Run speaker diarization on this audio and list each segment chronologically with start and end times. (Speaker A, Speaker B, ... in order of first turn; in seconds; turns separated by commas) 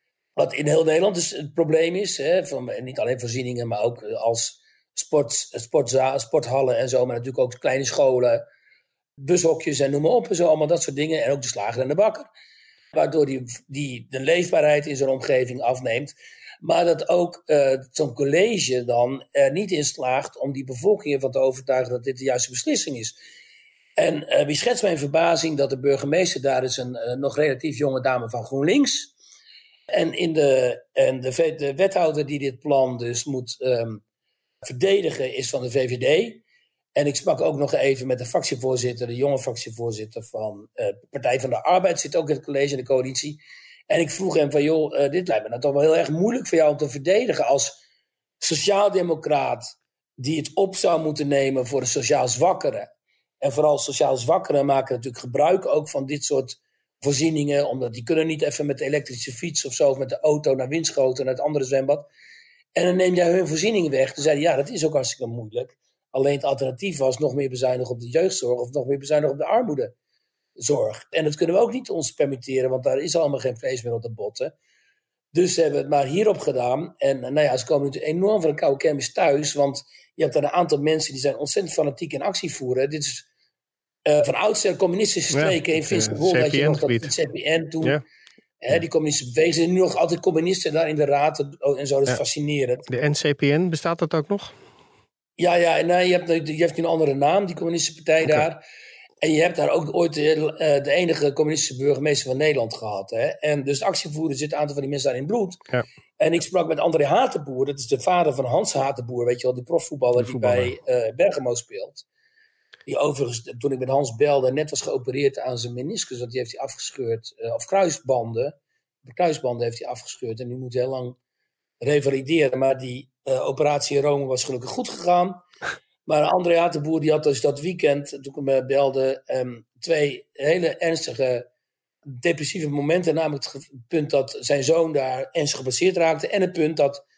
Speaker A: 0.3-8.4, Speaker A: 9.2-12.3, Speaker A: 12.9-23.2, Speaker A: 24.0-29.1, Speaker A: 29.9-34.0, Speaker A: 34.6-36.4, Speaker A: 36.9-47.8, Speaker A: 48.4-52.9, Speaker A: 53.4-62.1, Speaker A: 62.7-69.9, Speaker A: 70.6-74.5, Speaker A: 75.3-83.3, Speaker A: 84.0-88.0, Speaker B: 85.3-87.1, Speaker A: 88.6-92.8, Speaker B: 92.9-94.5, Speaker A: 95.4-98.6, Speaker A: 99.2-105.6, Speaker A: 106.2-112.0, Speaker B: 110.2-110.7, Speaker A: 112.8-121.2, Speaker A: 121.8-125.4, Speaker A: 126.0-131.5, Speaker A: 132.1-137.0